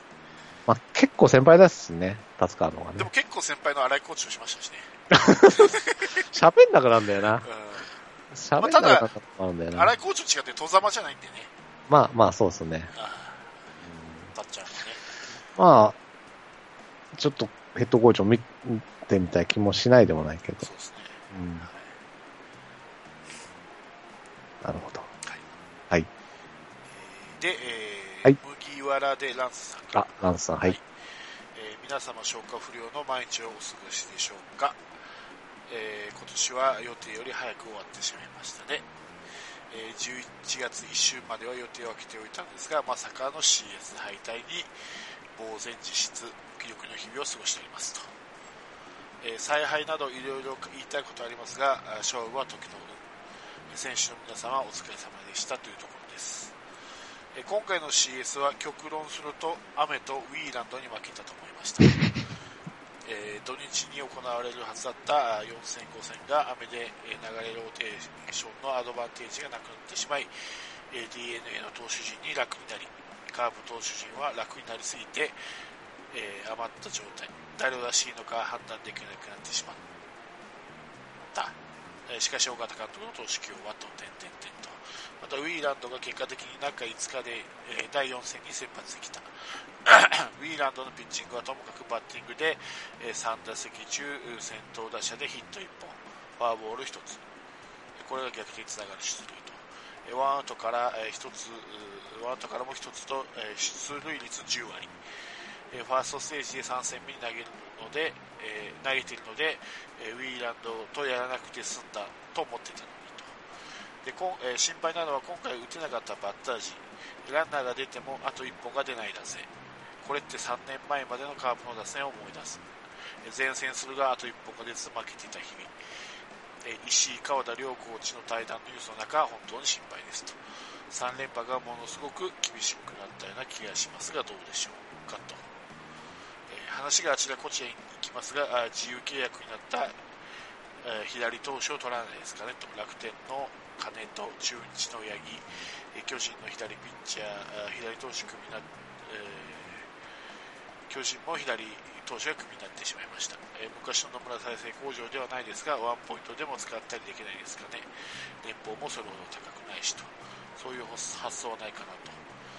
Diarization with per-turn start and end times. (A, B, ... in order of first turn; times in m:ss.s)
0:00.7-0:03.1 A
0:03.0-0:04.9 B
0:05.1-0:05.8 A
0:05.4-0:06.2 B
0:06.3-0:07.4 A
0:07.4-0:07.9 B
0:08.3-0:09.9 A
0:08.6-0:09.1 B
0:09.7-0:11.5 B
0:11.9-0:12.9 A
0:12.9-0:13.6 B
0:13.8-0:14.2 A
0:14.3-0:15.0 B
0:15.6-0:16.0 A
0:17.1-0:20.7 A
0:20.6-0:21.9 B
0:21.3-0:21.7 A
0:24.6-0:25.1 A
0:26.9-0:30.8 B
0:29.9-0:30.8 A
0:31.5-0:34.8 B
0:35.7-0:38.8 B
0:39.7-0:44.7 B
0:45.3-0:48.1 B
0:49.2-0:53.0 B
0:53.7-0:56.5 B
0:57.3-1:02.0 B
1:03.0-1:10.3 B
1:10.9-1:15.3 B
1:16.1-1:19.8 B
1:22.1-1:29.3 B
1:29.8-1:37.2 B
1:38.0-1:44.9 B
1:45.7-1:53.4 B
1:54.0-1:59.5 B
2:00.0-2:02.6 B
2:03.2-2:05.7 B
2:06.6-2:10.4 B
2:10.9-2:15.4 B
2:16.5-2:20.0 B
2:20.8-2:29.9 B
2:30.9-2:37.9 B
2:38.4-2:42.2 B